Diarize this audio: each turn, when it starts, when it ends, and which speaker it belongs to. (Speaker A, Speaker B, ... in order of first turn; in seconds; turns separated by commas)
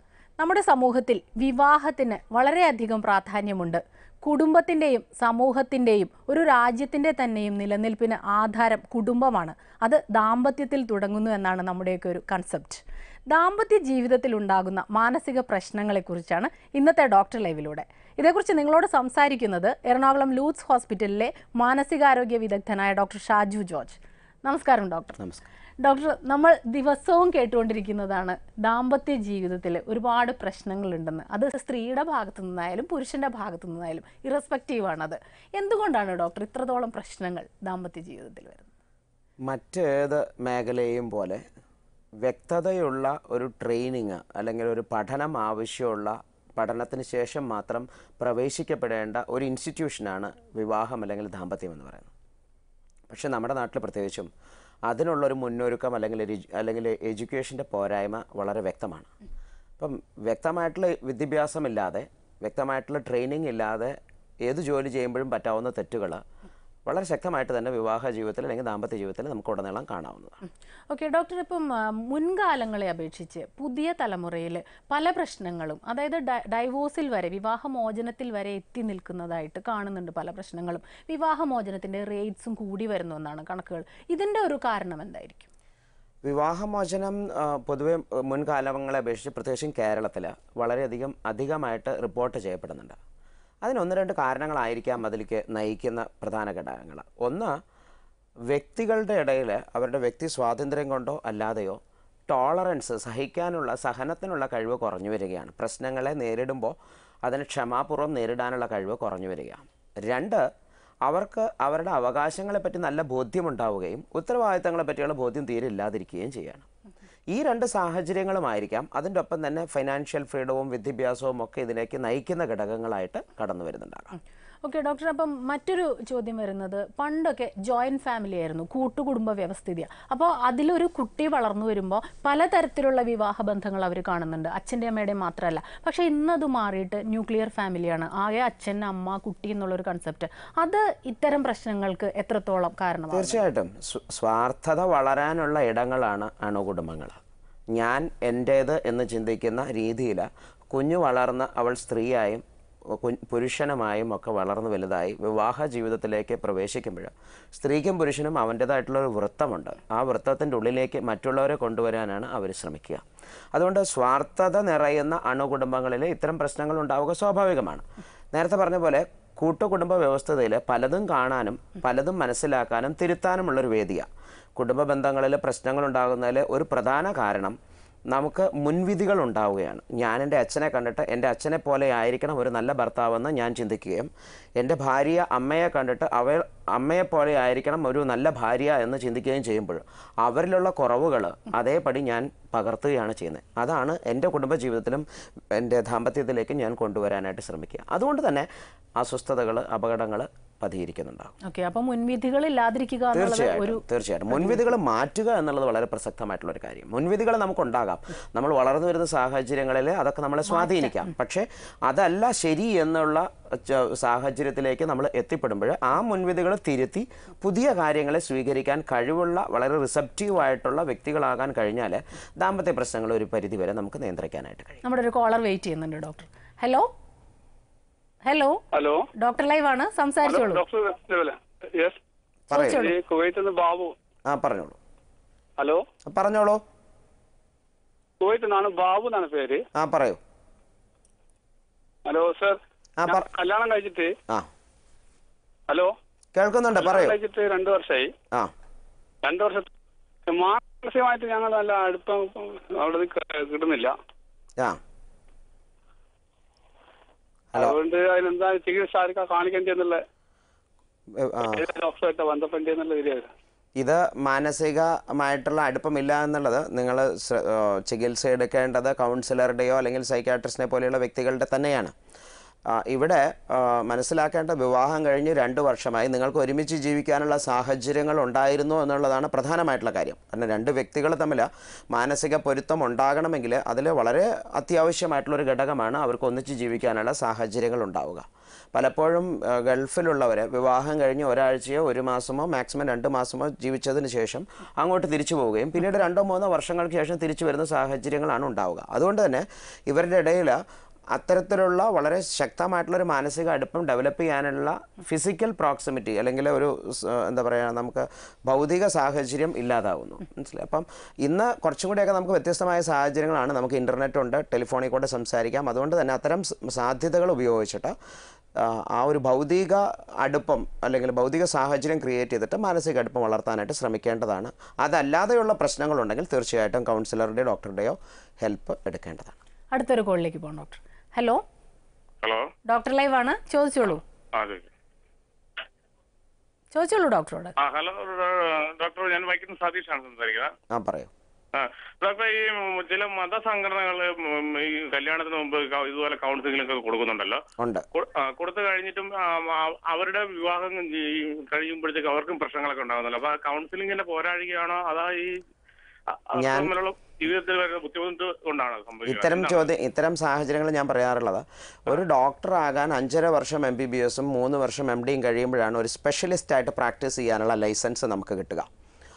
Speaker A: 0.4-25.2, Speaker B: 25.2-25.5, Speaker A: 25.8-38.7, Speaker B: 39.5-41.4, Speaker B: 42.2-52.1, Speaker B: 53.1-54.3, Speaker B: 54.9-59.1, Speaker B: 59.8-66.2, Speaker B: 66.8-70.4, Speaker A: 70.9-85.5, Speaker B: 86.2-93.0, Speaker B: 93.6-97.5, Speaker B: 98.5-110.4, Speaker B: 111.1-116.6, Speaker B: 117.3-124.2, Speaker A: 124.6-143.4, Speaker B: 143.1-147.2, Speaker B: 147.7-152.4, Speaker B: 153.0-177.6, Speaker B: 178.1-195.0, Speaker B: 195.6-201.3, Speaker A: 201.4-203.8, Speaker B: 203.1-224.8, Speaker A: 210.5-210.9, Speaker A: 224.8-226.9, Speaker A: 228.2-228.6, Speaker C: 228.7-229.0, Speaker A: 229.2-230.6, Speaker C: 230.2-232.0, Speaker B: 232.5-232.8, Speaker A: 232.5-232.9, Speaker C: 232.5-233.9, Speaker B: 234.3-234.8, Speaker B: 236.1-236.6, Speaker C: 238.2-239.6, Speaker B: 239.8-240.2, Speaker C: 242.1-244.1, Speaker B: 243.0-243.2, Speaker B: 246.3-247.2, Speaker C: 246.8-248.1, Speaker C: 249.2-249.7, Speaker C: 250.3-253.9, Speaker C: 257.5-260.0, Speaker B: 261.2-261.6, Speaker C: 261.6-263.3, Speaker B: 263.8-271.9, Speaker B: 272.7-300.6, Speaker B: 301.1-317.9, Speaker B: 318.6-329.4, Speaker A: 329.7-331.4, Speaker A: 332.7-334.0, Speaker D: 334.3-334.6, Speaker A: 336.7-337.5, Speaker D: 337.6-340.5, Speaker B: 340.7-341.1, Speaker D: 341.5-347.4, Speaker B: 347.6-347.8, Speaker D: 347.9-355.3, Speaker D: 356.1-359.7, Speaker B: 356.4-356.7, Speaker B: 359.1-368.7